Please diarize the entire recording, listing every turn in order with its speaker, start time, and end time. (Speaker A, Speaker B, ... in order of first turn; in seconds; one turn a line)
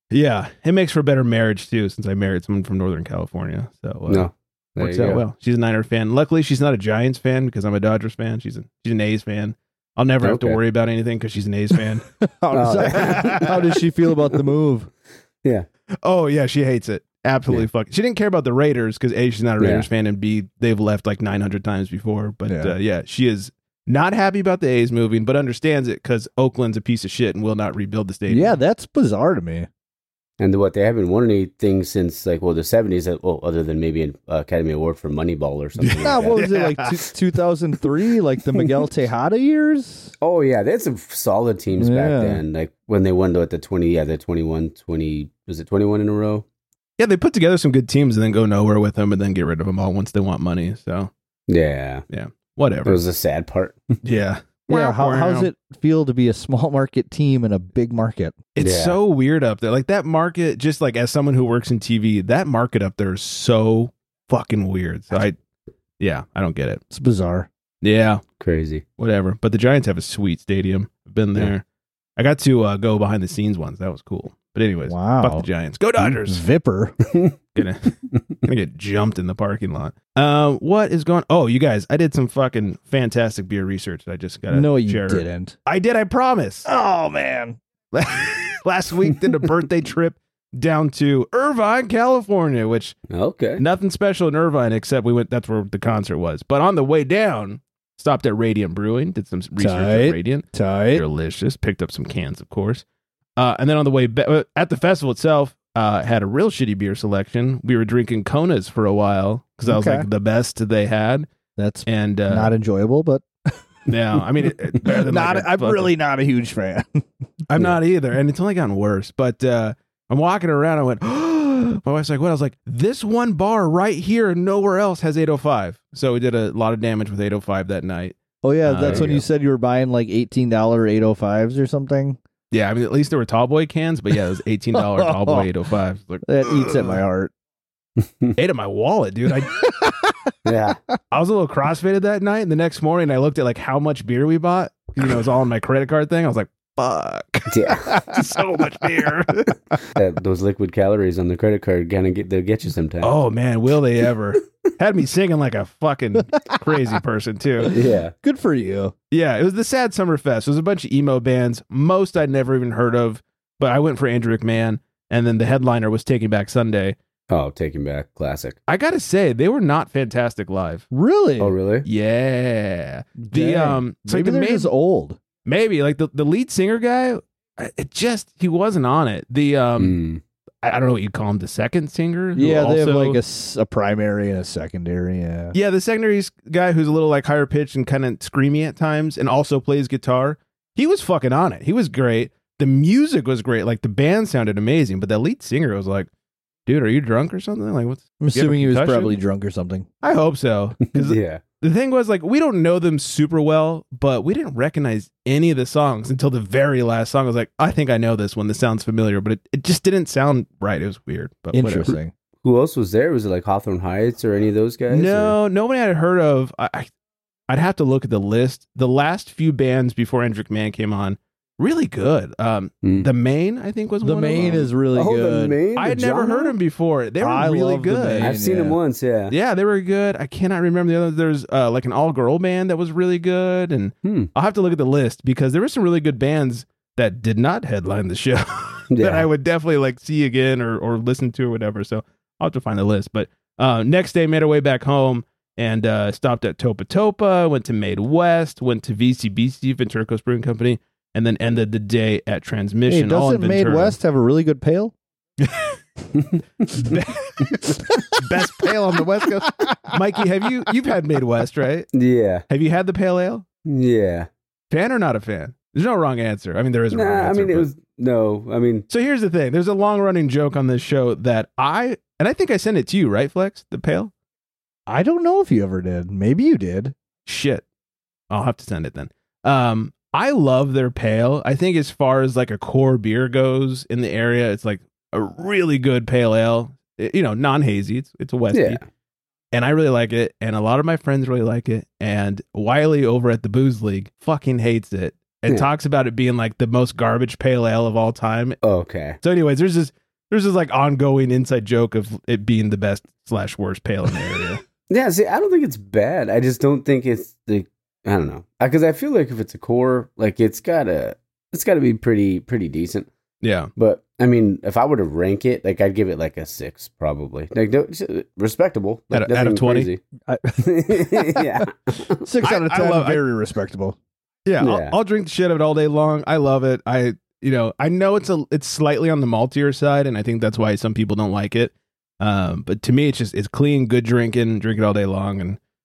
Speaker A: 0.1-12.1
Speaker B: 4.1-5.2
Speaker B: 10.2-10.6
Speaker C: 12.2-14.9
Speaker B: 12.5-13.6
Speaker A: 12.9-13.5
Speaker A: 16.0-28.5
Speaker B: 19.6-19.9
Speaker C: 22.5-22.7
Speaker C: 28.3-29.7
Speaker B: 30.4-36.4
Speaker A: 35.8-36.9
Speaker C: 36.0-40.1
Speaker B: 40.2-46.4
Speaker C: 41.8-42.4
Speaker A: 47.0-51.1
Speaker B: 51.5-52.0
Speaker A: 52.1-53.0
Speaker B: 52.8-54.0
Speaker A: 54.0-55.5
Speaker C: 54.7-58.4
Speaker A: 58.5-65.3
Speaker B: 58.6-59.0
Speaker A: 66.0-66.8
Speaker C: 66.9-67.5
Speaker A: 67.8-68.2
Speaker B: 68.4-68.8
Speaker A: 69.0-71.6
Speaker A: 72.2-76.5
Speaker C: 74.9-75.5
Speaker C: 76.0-76.9
Speaker A: 77.5-86.7
Speaker C: 84.5-85.5
Speaker C: 86.7-87.6
Speaker A: 87.9-92.9
Speaker B: 93.1-93.6
Speaker A: 93.6-102.8
Speaker C: 99.6-101.0
Speaker A: 103.4-111.3
Speaker C: 109.7-110.0
Speaker C: 111.6-113.9
Speaker A: 111.8-112.5
Speaker A: 113.9-115.9
Speaker C: 114.5-117.0
Speaker A: 117.5-129.2
Speaker C: 128.4-132.2
Speaker B: 128.8-129.1
Speaker A: 132.5-137.0
Speaker C: 134.8-135.4
Speaker C: 136.2-137.3
Speaker B: 138.0-138.3
Speaker A: 138.3-139.9
Speaker B: 140.4-140.8
Speaker A: 141.1-149.8
Speaker B: 147.5-147.9
Speaker B: 149.9-153.1
Speaker A: 153.0-157.7
Speaker B: 157.7-158.1
Speaker C: 158.2-158.9
Speaker A: 159.1-166.9
Speaker B: 167.3-168.6
Speaker A: 168.7-170.9
Speaker C: 170.9-171.5
Speaker B: 171.4-171.8
Speaker A: 171.8-174.7
Speaker C: 173.2-175.2
Speaker A: 175.4-180.0
Speaker B: 179.8-180.2
Speaker A: 180.6-183.2
Speaker C: 182.3-185.5
Speaker A: 185.5-196.1
Speaker A: 196.7-199.2
Speaker C: 198.2-199.8
Speaker A: 200.0-211.9
Speaker B: 200.9-201.4
Speaker C: 211.5-212.1
Speaker B: 211.9-215.3
Speaker A: 214.9-216.9
Speaker A: 217.5-224.7
Speaker C: 224.0-225.6
Speaker B: 224.4-226.6
Speaker A: 225.8-228.3
Speaker C: 227.2-228.8
Speaker B: 228.2-229.3
Speaker A: 229.3-254.0
Speaker B: 234.0-234.3
Speaker B: 238.9-239.3
Speaker C: 252.9-254.9
Speaker A: 255.4-255.8
Speaker B: 256.2-256.9
Speaker A: 256.9-261.9
Speaker B: 261.9-262.4
Speaker A: 262.5-263.4
Speaker B: 263.6-264.3
Speaker A: 264.7-267.7
Speaker B: 266.9-268.9
Speaker A: 268.9-274.1
Speaker C: 274.9-276.9
Speaker A: 277.2-277.6
Speaker A: 278.3-288.8
Speaker B: 288.5-288.8
Speaker A: 289.5-298.6
Speaker B: 298.6-299.2
Speaker A: 299.2-304.6
Speaker B: 304.9-313.1
Speaker A: 313.4-313.7
Speaker B: 313.8-320.0
Speaker A: 319.1-319.9
Speaker C: 320.3-321.6
Speaker B: 320.6-322.2
Speaker C: 322.2-323.9
Speaker A: 322.4-323.2
Speaker A: 324.4-335.6
Speaker B: 324.6-325.0